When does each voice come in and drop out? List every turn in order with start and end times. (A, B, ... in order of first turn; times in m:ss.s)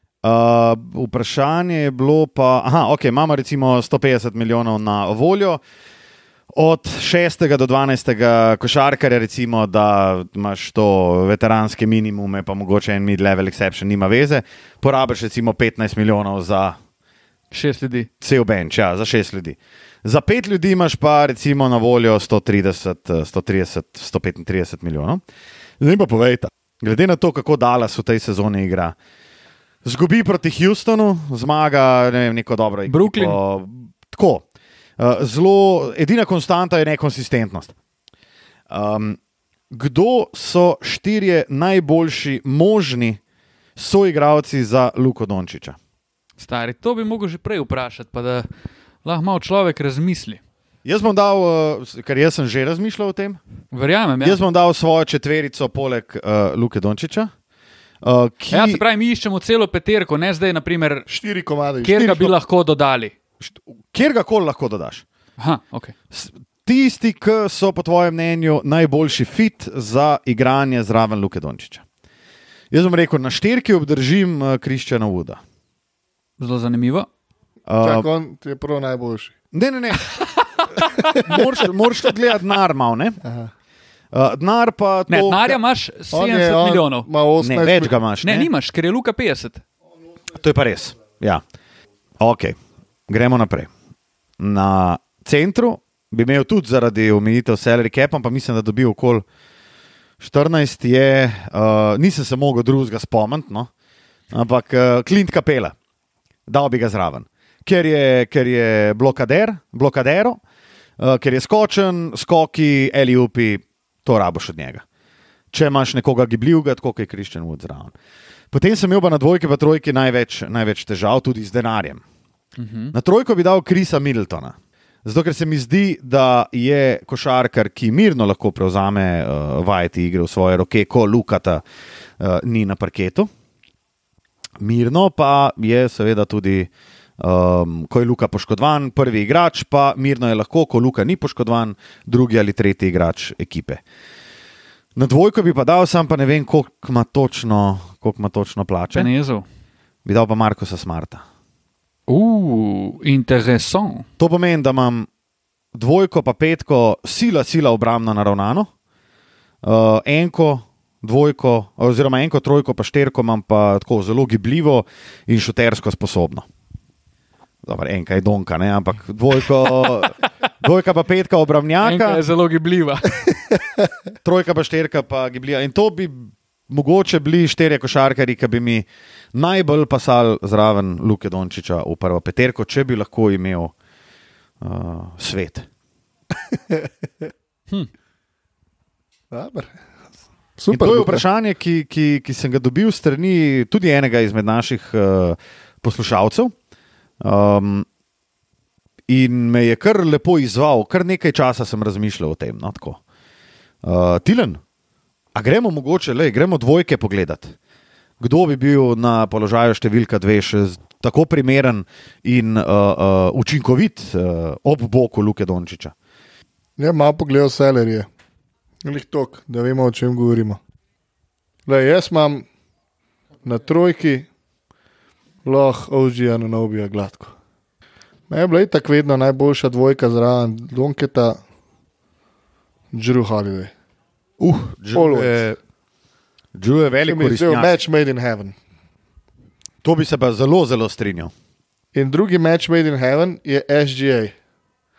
0:00.2-0:05.6 A
0:06.5-0:16.8 A
0:17.5-0:18.1 B
0:18.2-0:25.2 A
0:25.8-0:28.9 A
0:29.8-0:34.4 A
0:32.9-0:33.4 B
0:35.0-0:37.7 A
0:38.7-0:39.2 A
0:39.7-0:43.2 A
0:43.8-0:45.8 A
0:46.4-0:48.4 B
0:49.0-0:50.4 B
0:50.8-0:53.4 A
0:53.7-0:54.4 B
0:54.2-0:57.3 A
0:58.0-0:58.8 A
0:58.5-1:01.1 B
1:01.1-1:02.3 C
1:01.8-1:03.1 B
1:03.4-1:05.0 A
1:05.4-1:05.9 B
1:06.1-1:11.8 A
1:12.7-1:15.4 A
1:16.4-1:17.1 B
1:17.7-1:18.1 A
1:17.8-1:19.3 C
1:19.5-1:20.2 A
1:21.0-1:23.2 A
1:23.2-1:23.5 C
1:24.1-1:25.6 A
1:25.1-1:27.1 B
1:26.1-1:28.0 C
1:27.4-1:28.5 A
1:28.2-1:29.6 B
1:30.3-1:31.4 A
1:32.2-1:32.6 A
1:33.1-1:33.7 A
1:34.4-1:39.2 A
1:40.2-1:43.7 A
1:44.3-1:45.7 A
1:46.5-1:50.4 A
1:51.0-1:54.8 A
1:55.5-1:57.9 A
1:58.5-2:02.0 A
2:02.6-2:02.9 B
2:02.9-2:11.6 A
2:12.2-2:13.3 A
2:14.6-2:23.8 A
2:25.0-2:29.1 A
2:28.9-2:29.4 B
2:30.0-2:31.2 A
2:32.1-2:34.1 B
2:34.2-2:35.1 A
2:35.7-2:38.7 A
2:39.6-2:46.4 A
2:47.6-2:52.2 A
2:51.8-2:53.2 B
2:54.2-3:03.7 A
3:04.6-3:05.7 A
3:06.5-3:06.9 C
3:09.3-3:09.8 C
3:10.6-3:11.2 C
3:10.7-3:16.5 A
3:17.2-3:17.8 A
3:19.1-3:23.0 A
3:23.8-3:24.6 A
3:25.3-3:27.5 A
3:28.2-3:35.9 A
3:36.8-3:38.1 C
3:38.8-3:40.6 C
3:41.6-3:42.4 C
3:43.4-3:44.2 C
3:45.4-3:47.3 C
3:48.3-3:51.4 C
3:52.9-3:53.7 C
3:54.4-3:55.6 A
3:54.9-3:55.4 C
3:56.6-3:57.7 A
3:57.0-3:58.6 C
3:59.8-4:01.3 A
4:01.9-4:04.3 C